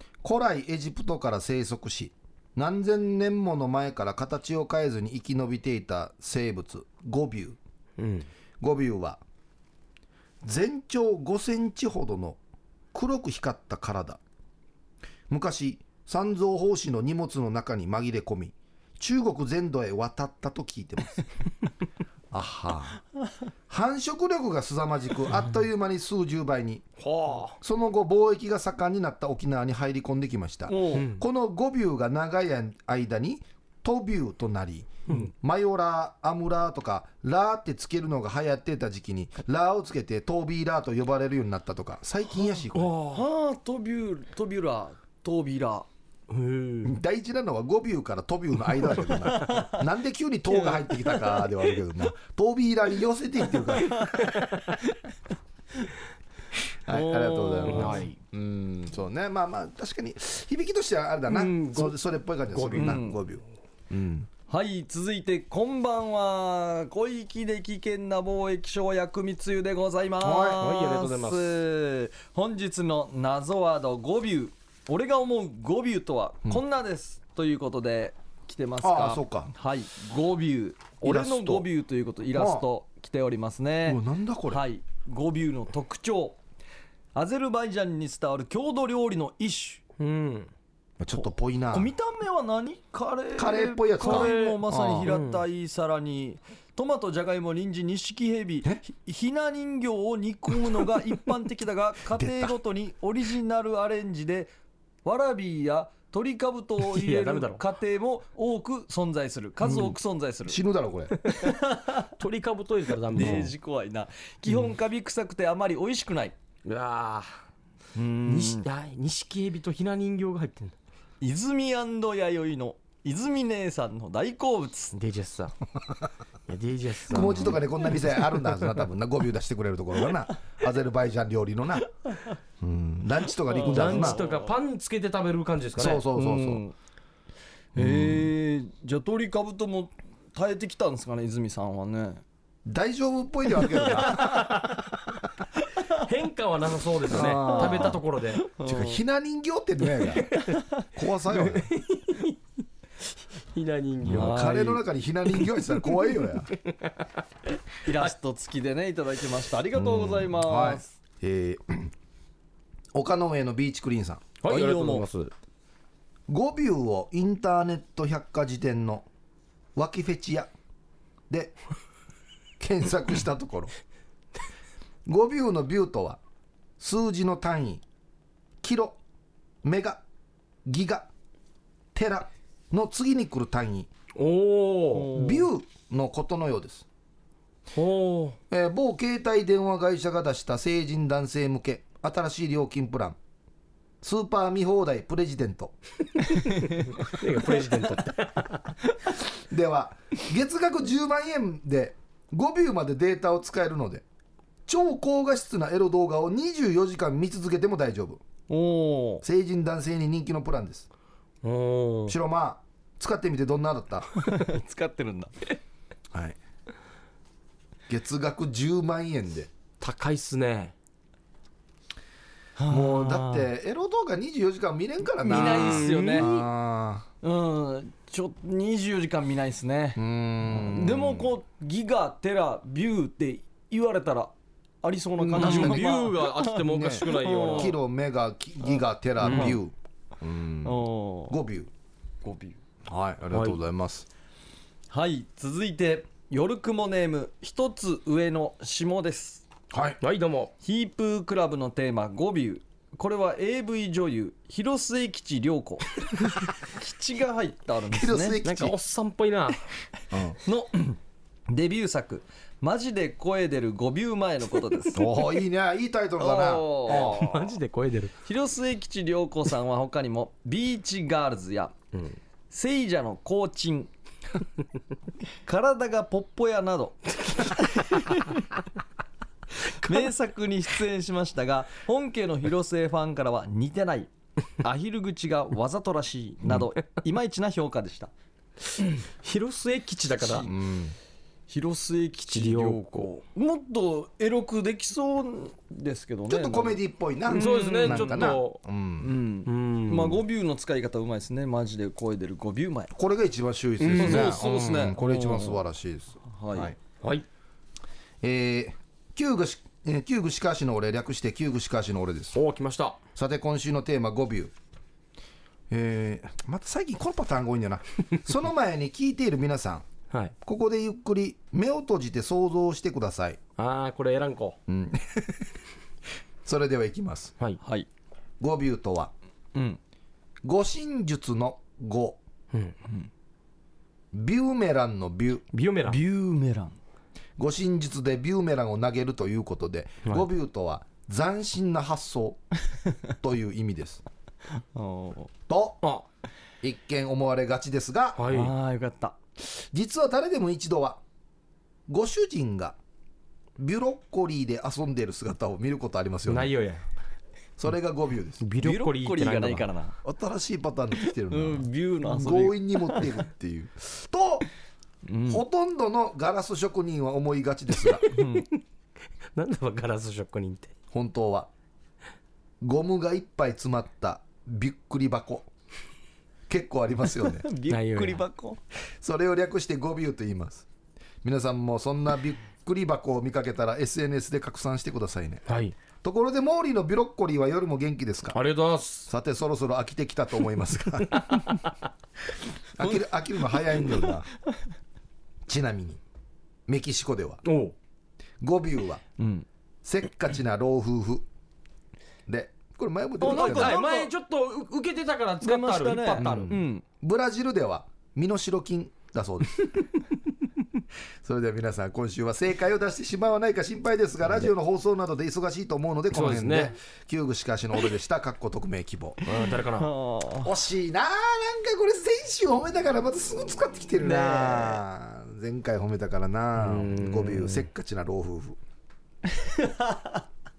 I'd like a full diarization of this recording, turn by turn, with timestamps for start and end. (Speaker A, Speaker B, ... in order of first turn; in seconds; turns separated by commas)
Speaker A: 0.2-7.6, Speaker B: 8.0-8.3, Speaker A: 8.6-9.2, Speaker A: 10.4-12.4, Speaker A: 12.9-14.2, Speaker A: 15.3-21.2, Speaker A: 22.3-23.0, Speaker A: 23.7-26.9, Speaker B: 27.0-27.6, Speaker A: 27.6-42.9, Speaker C: 30.7-31.1, Speaker B: 30.9-31.2, Speaker B: 42.7-43.2, Speaker C: 43.1-45.9, Speaker B: 46.3-46.9, Speaker A: 46.8-54.3, Speaker C: 49.3-49.8, Speaker C: 50.6-51.0, Speaker B: 54.2-54.6, Speaker A: 56.9-64.3, Speaker C: 56.9-58.1, Speaker B: 57.6-58.1, Speaker B: 61.3-62.0, Speaker B: 62.5-63.0, Speaker C: 62.7-63.2, Speaker C: 64.5-86.4, Speaker A: 70.2-70.6, Speaker B: 70.6-71.6, Speaker A: 78.8-79.5, Speaker A: 81.0-81.7, Speaker A: 82.3-82.7, Speaker A: 83.9-84.6, Speaker C: 87.1-89.8, Speaker B: 90.0-90.5, Speaker A: 91.0-91.9, Speaker C: 91.2-104.5, Speaker A: 93.4-95.1, Speaker B: 94.0-95.4, Speaker A: 102.1-102.5, Speaker C: 105.0-110.6, Speaker B: 106.8-107.6, Speaker A: 109.6-109.9, Speaker A: 110.5-111.2, Speaker B: 111.2-111.5, Speaker C: 111.4-112.1, Speaker B: 112.1-113.5, Speaker C: 113.1-116.4, Speaker A: 113.2-113.5, Speaker B: 116.6-117.3, Speaker C: 117.9-118.7, Speaker B: 118.2-120.7, Speaker C: 121.2-125.0, Speaker B: 124.9-125.5, Speaker B: 126.5-127.6, Speaker A: 127.1-131.9, Speaker A: 132.6-134.2, Speaker C: 133.5-134.5, Speaker B: 133.6-136.1, Speaker A: 135.8-136.6, Speaker C: 136.1-136.7, Speaker C: 137.7-142.2, Speaker A: 137.8-138.3, Speaker A: 142.7-144.6, Speaker B: 144.0-144.8, Speaker B: 145.9-148.4, Speaker A: 147.1-148.0, Speaker C: 147.2-149.0, Speaker A: 148.6-151.7, Speaker B: 151.3-152.4, Speaker B: 153.5-154.5, Speaker A: 154.1-156.5, Speaker C: 154.1-154.8, Speaker C: 157.8-160.9, Speaker A: 159.7-161.9, Speaker A: 162.9-164.3, Speaker B: 164.4-165.3, Speaker C: 164.4-165.1, Speaker A: 166.3-169.1, Speaker A: 169.7-170.5, Speaker A: 171.3-171.6, Speaker A: 172.6-173.7, Speaker A: 175.1-176.2, Speaker A: 176.8-177.8, Speaker A: 178.6-179.0, Speaker A: 179.6-180.0, Speaker A: 180.7-181.1, Speaker A: 181.9-183.9, Speaker B: 184.1-185.2, Speaker C: 184.9-185.4, Speaker A: 185.1-186.9, Speaker B: 187.7-188.4, Speaker A: 188.5-193.2, Speaker A: 194.0-195.7, Speaker B: 196.5-198.7, Speaker A: 199.5-204.0, Speaker A: 204.7-208.2, Speaker C: 208.5-209.2, Speaker A: 209.2-210.9, Speaker B: 211.4-212.2, Speaker A: 212.1-214.1, Speaker C: 214.2-215.3, Speaker A: 216.1-216.4, Speaker A: 217.9-219.5, Speaker B: 219.8-220.7, Speaker C: 222.6-223.5, Speaker A: 222.7-227.1, Speaker C: 225.2-226.3, Speaker B: 225.3-226.5, Speaker C: 227.2-237.8, Speaker A: 229.9-231.3, Speaker B: 235.3-237.8, Speaker A: 235.3-236.0, Speaker A: 236.6-241.7, Speaker B: 239.2-239.6, Speaker C: 239.2-239.6, Speaker C: 240.6-241.4, Speaker C: 242.2-242.6, Speaker A: 242.9-244.1, Speaker B: 243.3-243.6, Speaker C: 244.9-249.4, Speaker A: 249.7-250.0, Speaker B: 250.0-250.5, Speaker C: 250.6-258.4, Speaker A: 257.9-258.8, Speaker B: 258.4-259.6, Speaker A: 260.1-260.4, Speaker C: 260.4-261.0, Speaker C: 261.5-265.2, Speaker A: 264.9-267.2, Speaker C: 266.2-267.4, Speaker B: 266.9-268.1, Speaker C: 268.2-271.7, Speaker C: 272.5-273.9, Speaker C: 275.4-278.4, Speaker C: 279.6-288.1, Speaker B: 288.8-290.5, Speaker C: 290.2-290.5, Speaker A: 290.4-290.9, Speaker C: 291.5-298.3, Speaker B: 292.3-293.1, Speaker A: 296.3-299.1, Speaker B: 297.3-298.6, Speaker C: 299.0-302.9, Speaker B: 299.4-300.2, Speaker A: 302.9-306.8, Speaker B: 303.8-304.4, Speaker C: 303.9-305.6, Speaker C: 306.3-306.7, Speaker A: 308.2-312.4, Speaker B: 312.3-313.0, Speaker A: 313.1-314.5, Speaker A: 315.7-319.9, Speaker A: 320.4-323.4, Speaker B: 323.6-324.6, Speaker A: 324.7-325.5, Speaker A: 326.4-327.3, Speaker C: 327.6-327.9, Speaker A: 328.4-329.1, Speaker C: 329.6-329.8, Speaker A: 330.4-332.2, Speaker A: 334.1-335.4, Speaker B: 335.5-336.0, Speaker C: 335.9-336.8, Speaker A: 337.4-342.4, Speaker A: 343.2-344.0, Speaker C: 344.6-345.3, Speaker A: 345.5-345.8, Speaker A: 346.6-348.2, Speaker B: 348.2-348.5, Speaker C: 348.3-349.2, Speaker A: 349.4-351.0, Speaker A: 351.9-352.8, Speaker A: 353.6-356.5, Speaker B: 356.3-356.8, Speaker A: 357.6-358.4, Speaker B: 358.4-359.7, Speaker C: 358.6-359.9, Speaker A: 360.0-364.4, Speaker C: 361.3-363.2, Speaker C: 365.1-365.4, Speaker A: 365.3-368.1, Speaker C: 368.1-368.5, Speaker B: 368.2-368.4, Speaker B: 369.4-370.7, Speaker A: 370.9-371.5, Speaker A: 372.6-375.5, Speaker A: 376.5-377.4, Speaker C: 377.2-378.6, Speaker B: 377.7-378.2, Speaker A: 379.0-380.6, Speaker A: 381.2-385.4, Speaker B: 385.5-385.7, Speaker A: 386.0-388.4, Speaker B: 388.3-389.1, Speaker A: 389.1-391.6, Speaker A: 392.8-394.3, Speaker A: 395.5-396.0, Speaker A: 396.7-397.4, Speaker B: 397.4-397.7, Speaker A: 398.4-399.0, Speaker C: 399.2-399.4, Speaker A: 399.8-401.2, Speaker A: 402.3-403.8, Speaker C: 403.2-404.1, Speaker B: 403.2-406.5, Speaker C: 405.4-406.8, Speaker A: 406.2-409.7, Speaker A: 411.2-419.2, Speaker B: 416.1-416.7, Speaker B: 419.2-419.9, Speaker C: 419.7-420.5, Speaker A: 420.4-428.6, Speaker C: 424.0-424.8, Speaker B: 426.6-427.7, Speaker C: 429.3-430.2